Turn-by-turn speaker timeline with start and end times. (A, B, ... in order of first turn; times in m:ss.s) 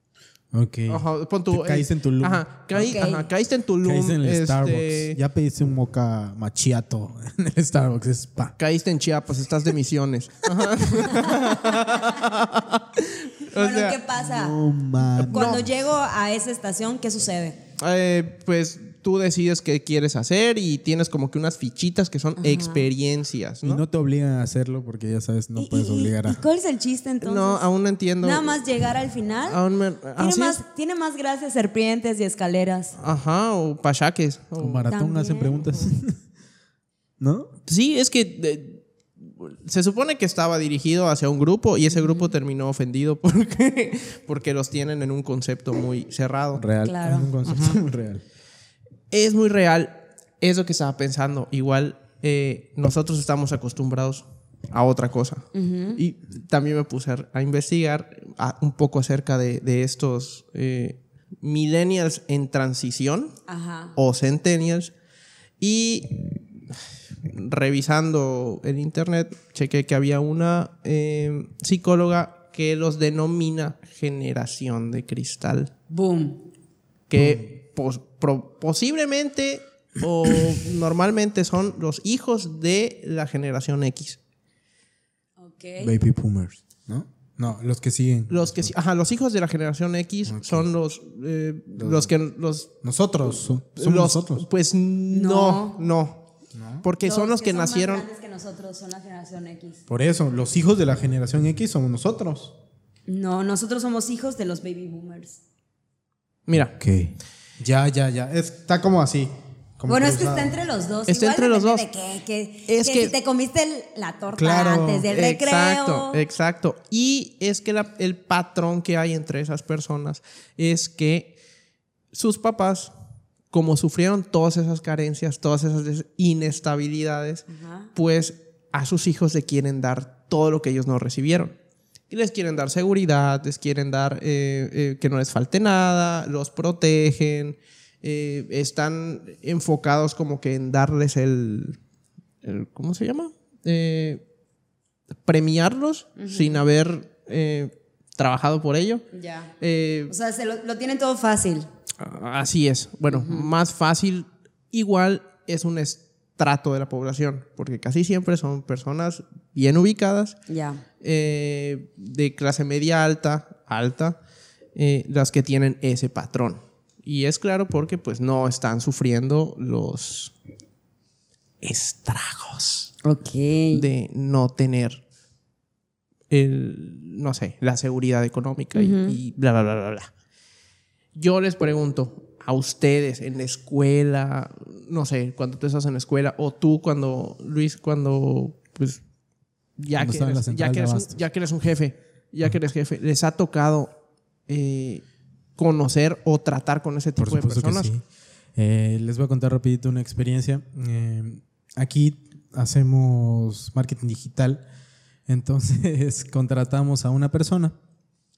0:00.5-0:03.0 A
0:00.9-0:05.2 B
0:02.8-0:03.3 C
0:03.8-0:08.6 A
0:08.6-0:14.0 B
0:13.5-0:14.6 C
0:14.2-0:15.7 A
0:15.2-0:15.7 B
0:15.3-0:17.6 C
0:17.8-0:23.8 B
0:22.4-0:22.9 C
0:23.6-0:26.4 A
0:25.6-0:27.6 C
0:27.2-0:28.6 B
0:28.2-0:29.6 C
0:29.5-0:30.6 B
0:30.2-0:33.0 C
0:33.0-0:34.9 B
0:34.6-0:36.2 A
0:34.9-0:35.6 C
0:37.2-0:37.5 A
0:37.7-0:46.6 B
0:46.6-0:48.2 A
0:46.8-0:47.3 C
0:47.5-0:47.8 B
0:49.1-1:03.4 B
0:55.5-0:56.0 C
1:03.5-1:03.9 C
1:04.0-1:04.9 B
1:05.6-1:06.4 B
1:07.2-1:15.7 B
1:15.9-1:16.5 C
1:17.1-1:24.2 B
1:17.2-1:17.4 A
1:25.4-1:26.0 C
1:25.8-1:28.7 A
1:28.3-1:32.7 B
1:30.3-1:30.7 A
1:31.8-1:32.1 A
1:32.8-1:34.4 A
1:33.8-1:36.2 B
1:35.1-1:35.8 C
1:36.5-1:36.8 A
1:36.8-1:38.0 B
1:37.0-1:39.8 C
1:39.9-1:42.6 A
1:43.1-1:45.4 C
1:46.5-1:46.7 B
1:46.8-1:50.6 A
1:49.9-1:56.2 C
1:51.1-1:51.8 B
1:52.7-1:53.1 B
1:54.4-1:55.1 A
1:55.1-2:01.4 B
2:02.1-2:02.9 B
2:03.5-2:11.6 B
2:07.5-2:07.9 C
2:12.1-2:21.8 B
2:22.4-2:24.2 B
2:25.2-2:29.1 B
2:26.2-2:26.6 C
2:29.1-2:29.5 C
2:29.6-2:30.1 B
2:30.1-2:31.7 C
2:32.0-2:40.4 B
2:33.1-2:33.5 C
2:40.5-2:40.8 C
2:41.0-2:44.2 B
2:44.8-2:50.3 B
2:51.6-2:52.9 B
2:53.0-2:53.9 C
2:53.7-2:55.0 B
2:56.3-3:00.1 B
2:58.8-2:59.2 C
3:01.2-3:09.0 B
3:09.8-3:13.9 B
3:09.9-3:11.2 A
3:14.5-3:15.0 B
3:15.6-3:17.9 B
3:17.2-3:18.0 A
3:18.6-3:24.6 A
3:25.3-3:27.8 A